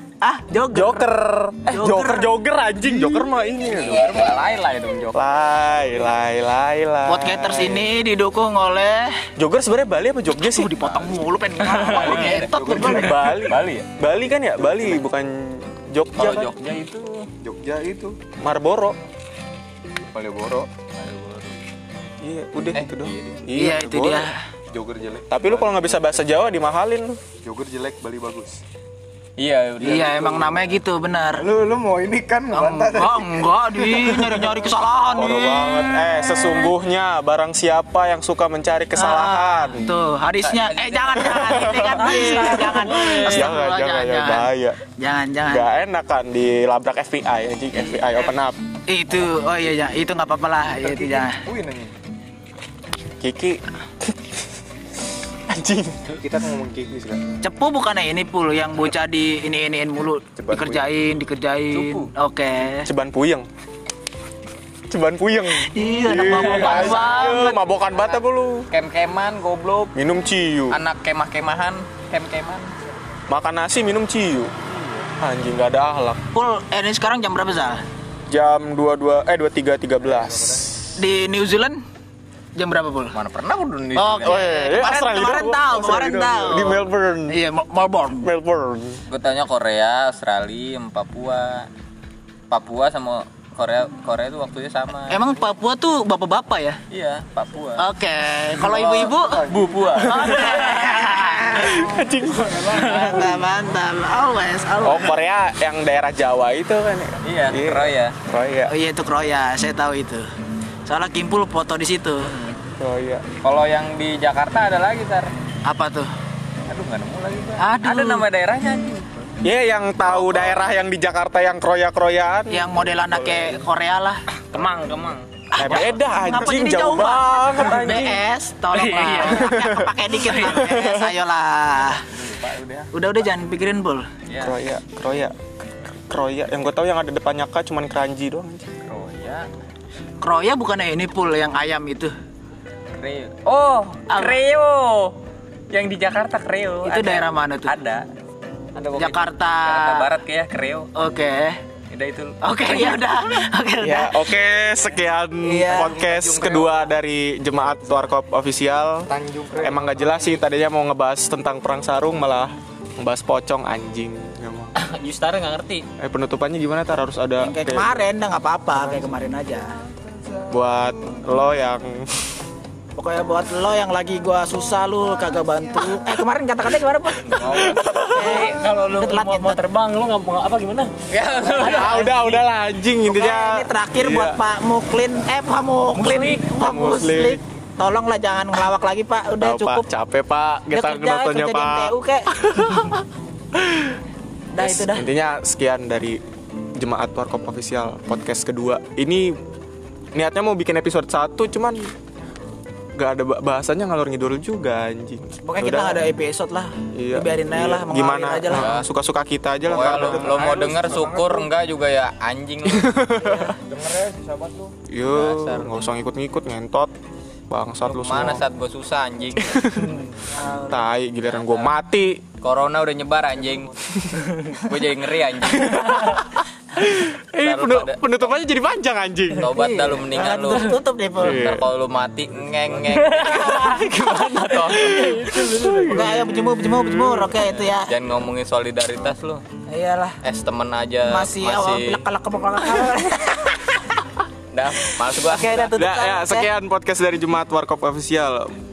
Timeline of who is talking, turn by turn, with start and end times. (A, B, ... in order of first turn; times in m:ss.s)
0:00.2-0:01.1 A
0:00.7-0:04.2 B
0:01.7-0:02.3 A
0:03.6-0:05.2 C
0:05.1-0:07.9 B
0:07.0-0:09.2 A
0:09.4-0:11.1 B
0:10.4-0:13.4 A
0:11.6-0:13.9 C
0:12.1-0:16.5 B
0:12.4-0:13.1 D
0:14.0-0:14.9 D
0:16.2-0:17.3 C
0:17.4-0:18.2 D
0:18.4-0:19.0 B
0:20.0-0:20.9 D
0:21.0-0:21.5 C
0:22.2-0:24.3 B
0:22.7-0:23.4 C
0:23.6-0:24.4 A
0:24.7-0:26.3 D
0:25.3-0:27.2 B
0:27.4-0:28.6 D
0:29.4-0:30.8 C
0:29.8-0:31.5 A
0:30.0-0:30.5 D
0:31.4-0:34.6 D
0:32.5-0:36.7 A
0:35.1-0:39.9 B
0:39.0-0:45.7 A
0:40.4-0:43.6 C
0:41.2-0:44.8 B
0:45.5-0:48.6 B
0:47.8-0:48.4 A
0:48.9-0:51.4 A
0:50.8-0:51.9 D
0:53.2-0:54.1 B
0:55.5-0:56.1 B
0:56.2-0:57.4 D
0:57.4-1:02.9 A
1:00.4-1:00.9 D
1:01.7-1:02.1 C
1:02.8-1:03.5 B
1:04.9-1:08.7 B
1:05.6-1:07.6 A
1:06.3-1:08.2 C
1:08.7-1:09.9 C
1:10.0-1:10.8 B
1:10.7-1:12.7 C
1:13.3-1:16.2 B
1:16.3-1:17.8 A
1:18.3-1:21.0 B
1:20.2-1:20.7 D
1:21.0-1:21.8 A
1:22.6-1:23.1 A
1:23.1-1:24.5 C
1:24.0-1:28.3 A
1:24.2-1:27.4 B
1:28.2-1:29.0 B
1:29.1-1:31.7 C
1:32.5-1:35.2 C
1:35.1-1:36.8 A
1:36.9-1:37.9 C
1:37.8-1:41.9 A
1:38.6-1:39.2 B
1:38.7-1:41.0 C
1:39.6-1:39.8 D
1:40.0-1:40.7 B
1:41.5-1:43.4 B
1:42.7-1:45.2 A
1:44.8-1:48.8 B
1:47.2-1:48.2 C
1:48.7-1:50.3 A
1:50.9-1:52.3 A
1:52.2-1:52.6 C
1:52.7-1:53.2 B
1:53.4-1:55.3 C
1:55.6-1:56.1 A
1:56.7-1:59.1 C
1:57.6-1:58.2 A
1:59.4-2:03.6 B
2:00.1-2:00.6 C
2:02.5-2:04.2 A
2:04.5-2:05.9 C
2:05.5-2:12.0 A
2:05.6-2:08.3 B
2:08.7-2:09.4 E
2:09.2-2:11.2 B
2:11.9-2:12.9 C
2:12.9-2:14.1 A
2:14.3-2:14.6 C
2:14.4-2:15.3 B
2:16.1-2:18.7 B
2:18.8-2:19.5 C
2:20.2-2:22.1 A
2:22.9-2:25.2 C
2:24.1-2:24.4 A
2:25.7-2:28.1 C
2:26.8-2:27.7 A
2:28.8-2:30.9 C
2:29.0-2:30.1 A
2:31.0-2:31.6 A
2:31.9-2:33.0 C
2:32.4-2:34.3 A
2:33.8-2:44.7 B
2:35.4-2:36.0 A
2:35.7-2:36.9 D
2:39.1-2:40.4 D
2:44.8-2:45.9 C
2:46.0-2:47.9 B
2:47.4-2:49.7 A
2:50.5-2:52.2 B
2:53.0-2:59.6 A
2:57.2-2:58.7 C
2:57.5-2:58.0 B
2:58.1-3:00.9 E
3:01.1-3:02.3 C
3:01.5-3:04.4 B
3:01.8-3:02.4 A
3:03.0-3:09.8 A
3:06.0-3:06.4 E
3:06.1-3:07.4 B
3:09.4-3:14.0 B
3:10.7-3:12.3 A
3:14.5-3:15.1 A
3:14.6-3:16.2 B
3:16.8-3:19.4 B
3:20.1-3:21.9 B
3:23.0-3:26.0 B
3:25.4-3:28.9 A
3:26.9-3:30.9 B
3:28.6-3:28.9 C
3:29.7-3:33.5 C
3:29.8-3:31.5 D
3:32.6-3:33.6 B
3:33.6-3:34.8 D
3:34.9-3:36.9 B
3:35.1-3:35.9 C
3:37.5-3:38.4 B
3:37.8-3:39.6 C
3:39.4-3:39.9 B
3:40.3-3:40.8 A
3:40.7-3:42.2 B
3:41.2-3:41.7 C
3:42.4-3:43.7 C
3:44.4-3:46.2 C
3:45.5-3:49.5 B
3:47.4-3:48.0 C
3:49.4-3:55.3 C
3:49.4-3:51.5 A
3:51.2-3:51.7 B
3:53.1-3:54.0 E
3:54.6-3:56.3 E
3:55.6-3:57.4 B
3:55.8-3:57.9 A
3:57.4-3:59.4 C
3:59.7-4:00.2 A
4:00.2-4:02.0 C
4:01.1-4:03.8 A
4:04.5-4:05.7 C
4:05.0-4:06.5 A
4:05.7-4:08.5 B